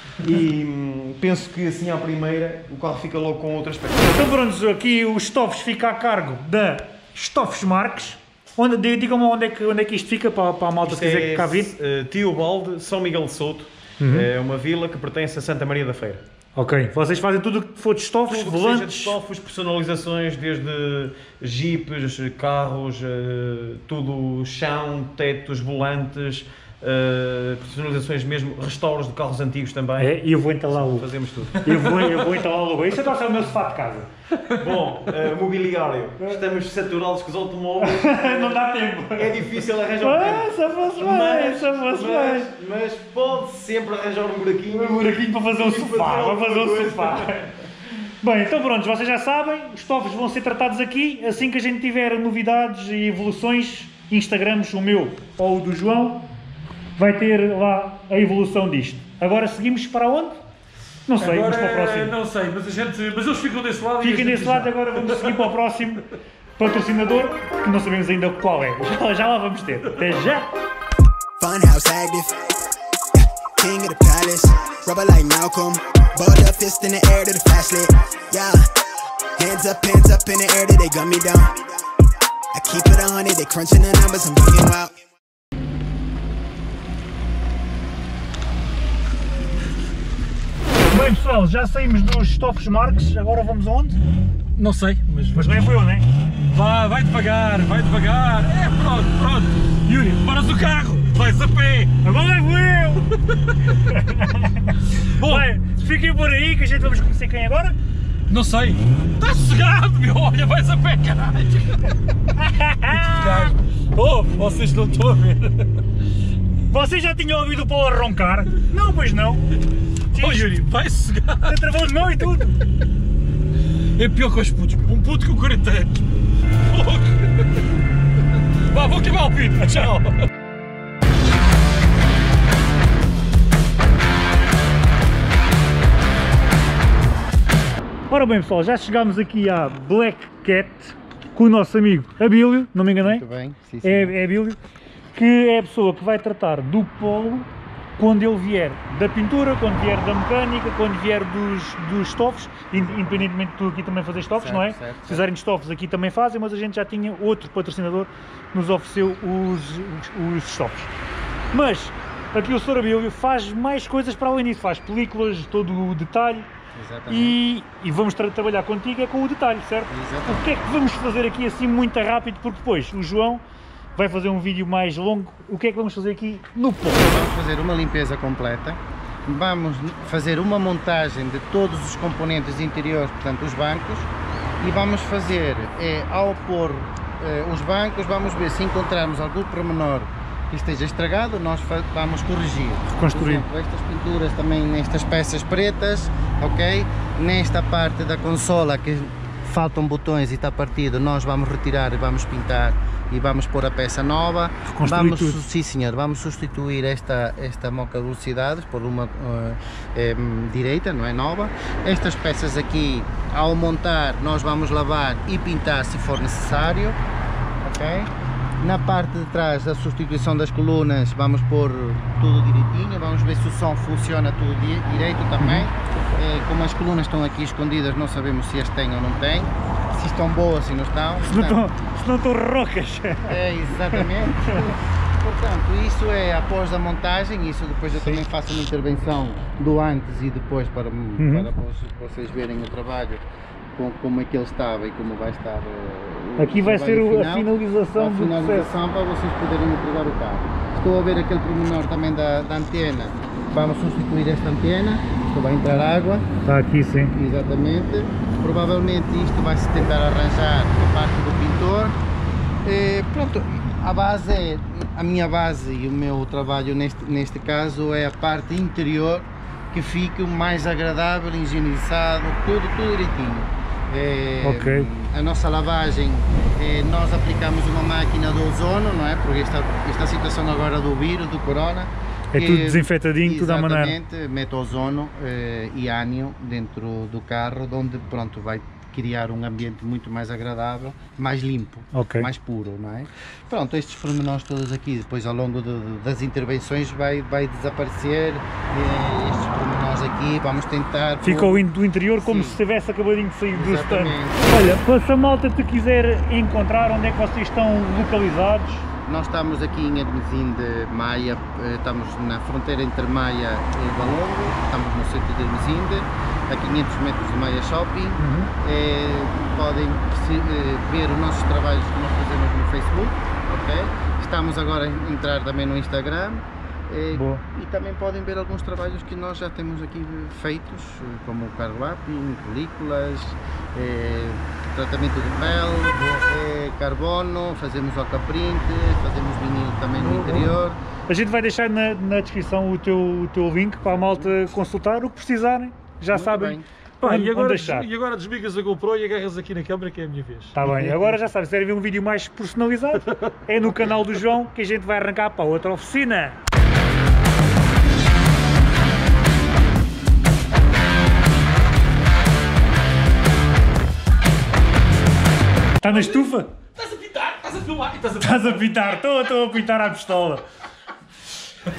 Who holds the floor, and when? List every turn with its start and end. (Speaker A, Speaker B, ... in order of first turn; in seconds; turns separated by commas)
Speaker A: 0.2-4.3, Speaker B: 4.1-11.7, Speaker A: 10.8-16.2, Speaker B: 14.0-14.3, Speaker B: 16.6-19.2, Speaker A: 18.3-30.2, Speaker B: 30.0-31.1, Speaker A: 30.7-32.2, Speaker B: 31.6-34.1, Speaker A: 34.4-38.6, Speaker B: 37.8-39.4, Speaker A: 39.1-47.5, Speaker B: 40.0-42.5, Speaker B: 44.7-47.5, Speaker B: 48.2-56.3, Speaker B: 57.0-60.4, Speaker B: 61.1-62.1, Speaker C: 61.2-65.5, Speaker B: 64.0-66.0, Speaker B: 66.6-70.5, Speaker D: 71.4-72.4, Speaker D: 73.2-78.6, Speaker D: 79.4-81.7, Speaker D: 82.5-85.0, Speaker B: 90.9-94.0, Speaker C: 94.6-95.7, Speaker B: 95.3-96.1, Speaker C: 96.5-102.0, Speaker B: 102.0-103.2, Speaker B: 103.7-107.8, Speaker C: 105.0-105.4, Speaker C: 108.3-112.0, Speaker B: 112.4-113.5, Speaker C: 112.9-115.7, Speaker B: 116.7-119.5, Speaker C: 120.1-121.5, Speaker B: 120.1-120.5, Speaker B: 121.5-122.6, Speaker C: 124.0-127.6, Speaker C: 128.7-130.3, Speaker B: 138.1-143.2, Speaker E: 143.0-144.1, Speaker B: 143.8-144.6, Speaker B: 145.1-160.9, Speaker E: 152.7-153.3, Speaker E: 154.4-155.2, Speaker B: 161.5-166.5, Speaker E: 166.7-167.4, Speaker B: 167.1-173.4, Speaker E: 169.9-170.5, Speaker B: 173.9-177.1, Speaker E: 177.0-184.1, Speaker E: 184.6-217.0, Speaker B: 192.9-193.5, Speaker B: 204.7-205.4, Speaker E: 217.6-231.6, Speaker B: 225.4-225.7, Speaker B: 231.2-233.4, Speaker E: 233.3-243.2, Speaker B: 233.9-234.7, Speaker B: 241.2-241.5, Speaker E: 243.8-256.2, Speaker B: 246.4-248.7, Speaker B: 256.4-257.1, Speaker E: 257.1-262.0, Speaker E: 262.6-301.6, Speaker B: 274.4-274.9, Speaker B: 282.3-284.0, Speaker B: 291.9-292.3, Speaker B: 301.2-308.9, Speaker E: 302.2-302.6, Speaker E: 303.5-304.5, Speaker E: 309.1-340.8, Speaker B: 318.2-318.5, Speaker B: 327.1-327.4, Speaker B: 340.1-340.4, Speaker B: 341.1-347.9, Speaker E: 343.9-344.4, Speaker E: 346.1-346.6, Speaker C: 347.0-351.1, Speaker B: 350.6-356.4, Speaker B: 365.8-366.5, Speaker C: 365.8-368.7, Speaker B: 368.2-370.4